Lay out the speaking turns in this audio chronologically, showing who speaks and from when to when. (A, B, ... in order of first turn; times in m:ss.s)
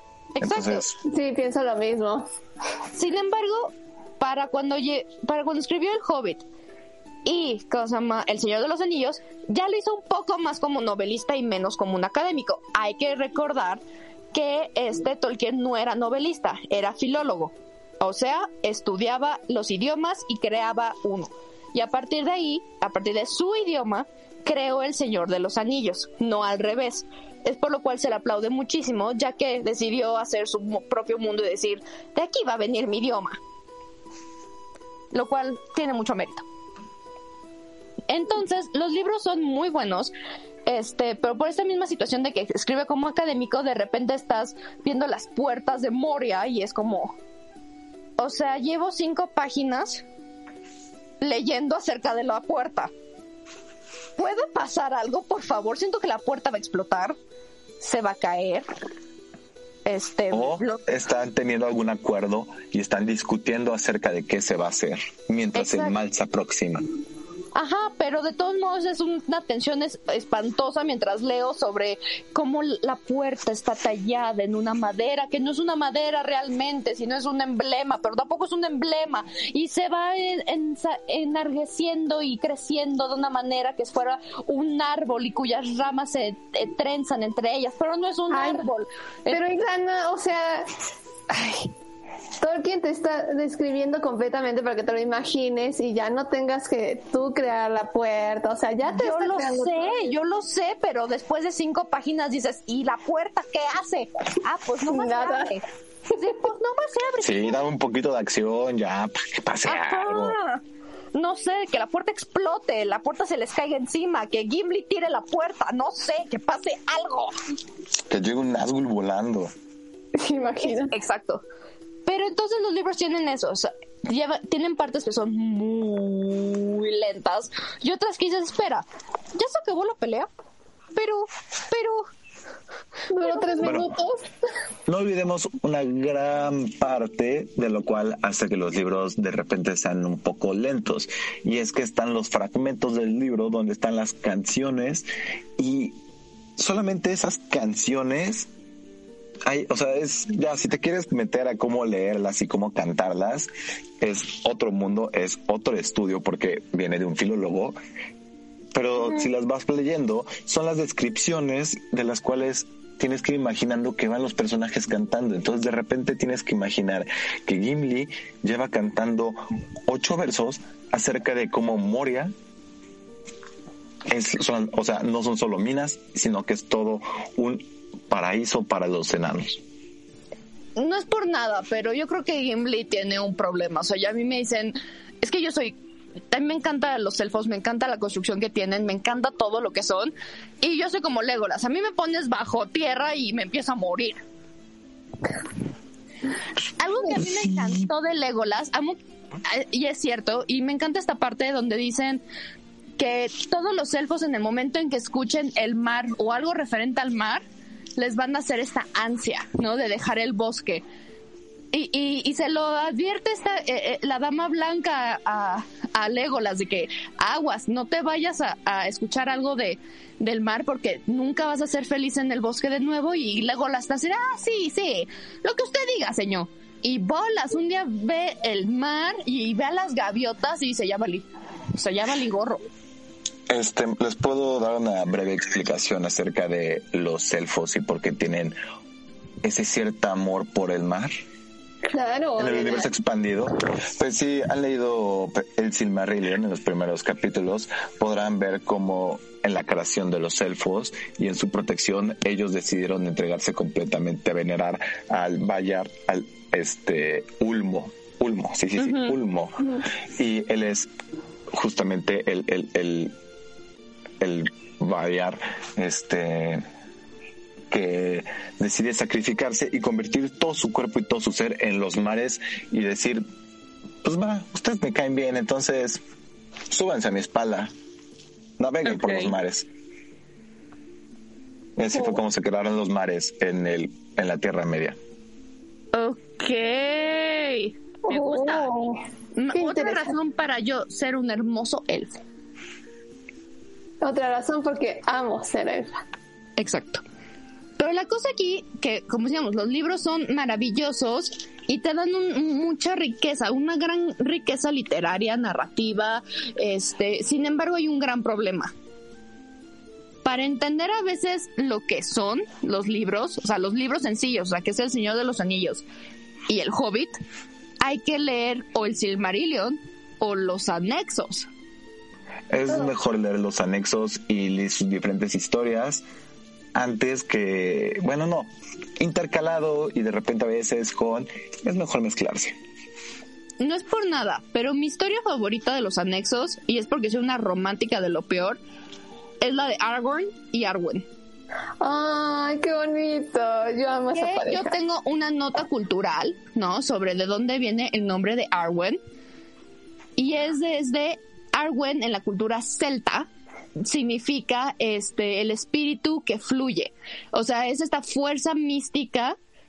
0:00.4-0:00.8 A
0:00.4-0:01.0 B
0:01.1-0:02.3 C
0:02.9-0:06.4 A
0:07.2-0:13.8 A
0:14.3-0:33.4 A
0:35.1-0:36.4 A
0:38.1-0:40.1 A
0:40.7-0:47.2 A
0:48.2-0:50.0 A
0:51.2-0:52.9 A
0:54.2-0:57.2 A
0:57.8-0:58.7 A
0:59.8-1:00.8 A
1:00.3-1:06.8 B
1:05.5-1:06.0 A
1:07.5-1:29.4 A
1:28.3-1:28.6 C
1:29.3-1:30.7 C
1:31.3-1:31.7 C
1:32.4-1:40.1 C
1:38.8-1:47.6 A
1:44.9-1:45.5 C
1:47.2-1:50.4 B
1:49.6-1:50.6 A
1:51.2-1:57.4 A
1:58.1-1:59.5 B
2:00.2-2:00.9 C
2:00.7-2:01.4 A
2:02.0-2:10.3 A
2:11.0-2:12.1 A
2:13.1-2:14.3 C
2:13.2-2:13.8 A
2:13.6-2:13.9 B
2:14.9-2:25.1 B
2:25.6-2:26.0 B
2:26.6-2:28.5 B
2:29.5-2:37.8 B
2:38.7-2:52.3 B
2:54.1-2:59.6 B
3:00.8-3:05.8 A
3:06.3-3:14.2 A
3:16.8-3:22.2 A
3:23.0-3:27.4 A
3:28.0-3:30.8 A
3:31.7-3:52.6 A
3:53.5-3:58.6 B
3:59.4-4:01.1 B
4:01.9-4:02.9 C
4:02.4-4:20.9 B
4:18.8-4:19.2 A
4:21.5-4:23.1 B
4:24.2-4:26.6 B
4:27.7-4:33.2 B
4:34.0-4:36.0 B
4:36.7-4:37.7 B
4:38.6-4:39.7 B
4:38.9-4:39.3 A
4:41.8-4:45.0 B
4:45.9-4:48.7 A
4:48.1-4:49.0 C
4:49.4-4:52.2 A
4:49.5-4:50.1 C
4:54.0-4:56.0 C
4:56.6-4:57.0 A
4:57.8-5:08.7 A
5:10.2-5:15.8 A
5:16.5-5:17.2 A
5:17.8-5:21.5 A
5:22.5-5:26.0 B
5:26.8-5:32.6 B
5:33.6-5:38.6 A
5:39.4-5:41.1 A
5:41.8-5:44.7 C
5:44.1-5:49.0 A
5:50.2-5:59.4 A